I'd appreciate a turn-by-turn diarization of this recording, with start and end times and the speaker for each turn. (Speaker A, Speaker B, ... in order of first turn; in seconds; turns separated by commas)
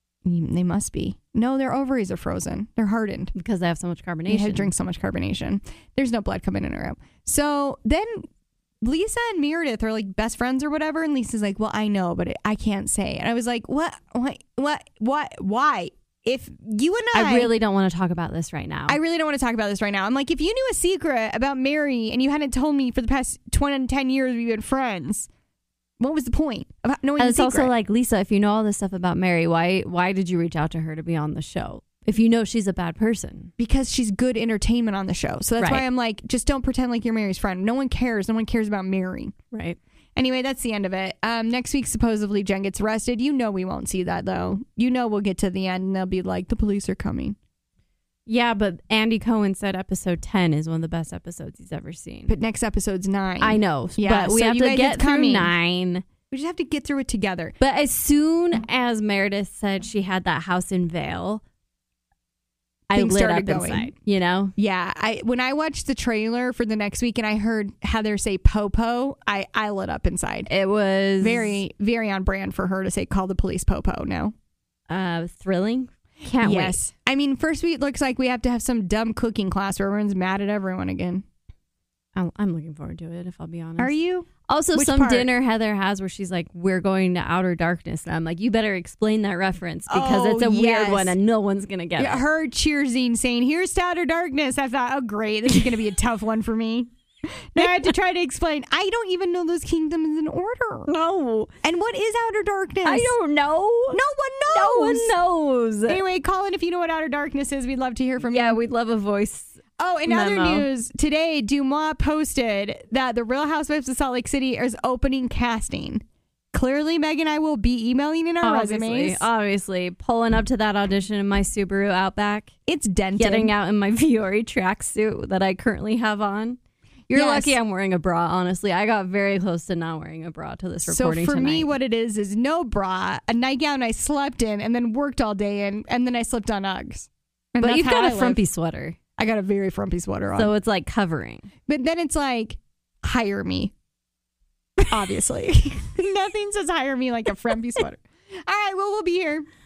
Speaker A: 0.2-3.3, Speaker B: 3.4-4.7, Speaker A: 4.3-8.3, Speaker A: 8.8-17.5, Speaker B: 17.1-19.0, Speaker A: 18.9-25.3, Speaker A: 26.0-27.7, Speaker B: 27.2-33.5, Speaker A: 33.6-39.3, Speaker B: 35.6-35.9, Speaker B: 39.5-39.8, Speaker A: 40.1-47.4, Speaker B: 48.3-52.4, Speaker A: 52.3-55.5, Speaker B: 53.4-56.1, Speaker A: 56.3-57.6, Speaker B: 57.6-61.4, Speaker A: 62.9-63.9, Speaker B: 62.9-64.5, Speaker A: 64.6-70.5, Speaker B: 70.5-71.6, Speaker A: 71.2-74.3, Speaker B: 74.9-76.8, Speaker A: 76.4-81.2, Speaker B: 82.2-83.9, Speaker A: 83.8-85.3, Speaker B: 84.5-92.2, Speaker A: 89.9-91.1, Speaker A: 92.0-100.9, Speaker B: 100.9-101.5, Speaker A: 101.6-103.1, Speaker B: 102.8-106.0, Speaker A: 103.9-105.2, Speaker A: 105.9-108.6, Speaker B: 108.2-110.7, Speaker A: 109.8-119.3, Speaker B: 118.4-122.5, Speaker A: 122.7-123.5, Speaker B: 123.2-131.7, Speaker A: 127.1-127.6, Speaker A: 130.9-138.4, Speaker B: 137.6-139.0, Speaker A: 139.2-140.5, Speaker B: 140.4-141.5, Speaker A: 141.7-143.7, Speaker A: 144.8-149.4